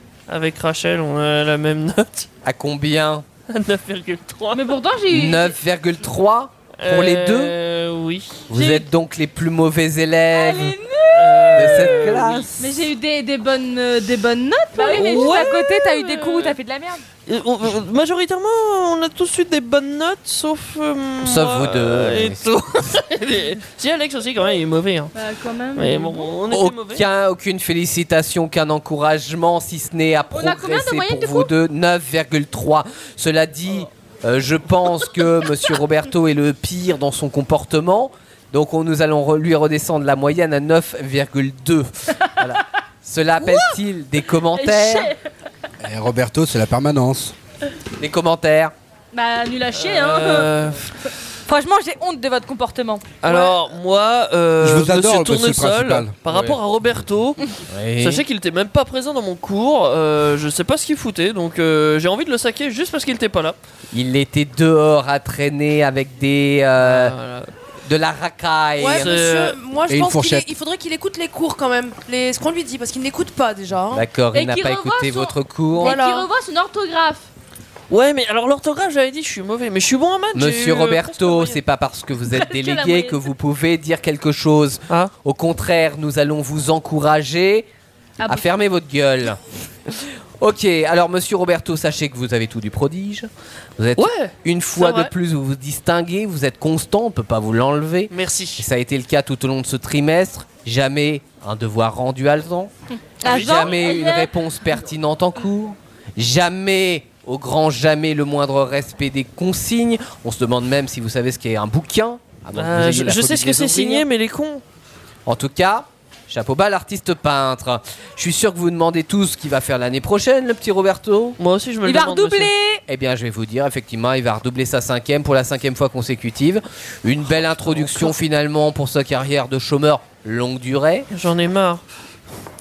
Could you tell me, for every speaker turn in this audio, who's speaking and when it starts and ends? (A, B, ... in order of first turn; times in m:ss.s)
0:00.3-0:02.3 A
0:02.4-0:03.2 B
0:03.5-0:04.8 A
0:04.5-0:05.5 C
0:05.1-0:07.6 B
0:06.8-0:08.5 A
0:08.5-0:10.8 B
0:08.5-0:08.9 C
0:10.4-0:12.0 C
0:11.1-0:12.5 A
0:11.6-0:12.7 B
0:12.6-0:16.2 C
0:14.0-0:17.0 D
0:14.9-0:16.6 A
0:17.3-0:25.2 A
0:21.2-0:22.4 B
0:25.2-0:26.4 C
0:25.8-0:27.1 A
0:26.5-0:45.1 B
0:30.3-0:31.5 C
0:44.6-0:45.2 C
0:45.8-0:47.3 E
0:48.0-0:48.7 B
0:49.1-0:50.5 C
0:49.7-0:50.9 A
0:51.5-0:53.5 D
0:53.2-0:57.4 A
0:54.6-0:56.1 E
0:56.3-0:56.6 B
0:57.7-0:58.2 B
0:58.0-1:03.6 A
1:03.9-1:07.2 B
1:06.8-1:07.5 A
1:07.8-1:09.2 B
1:08.8-1:14.1 F
1:08.9-1:09.6 A
1:09.9-1:10.5 E
1:13.9-1:16.0 B
1:14.3-1:17.2 C
1:15.8-1:16.3 F
1:17.9-1:21.6 A
1:20.3-1:27.7 B
1:22.3-1:23.2 C
1:28.2-1:42.7 B
1:28.2-1:28.5 C
1:34.0-1:35.1 A
1:38.1-1:38.7 A
1:43.2-1:44.3 C
1:43.2-1:54.0 B
1:43.3-1:43.9 A
1:52.6-1:54.6 A
1:55.3-2:01.4 B
2:01.4-2:02.5 A
2:01.8-2:02.8 D
2:02.9-2:11.1 B
2:07.6-2:08.0 A
2:11.1-2:11.8 A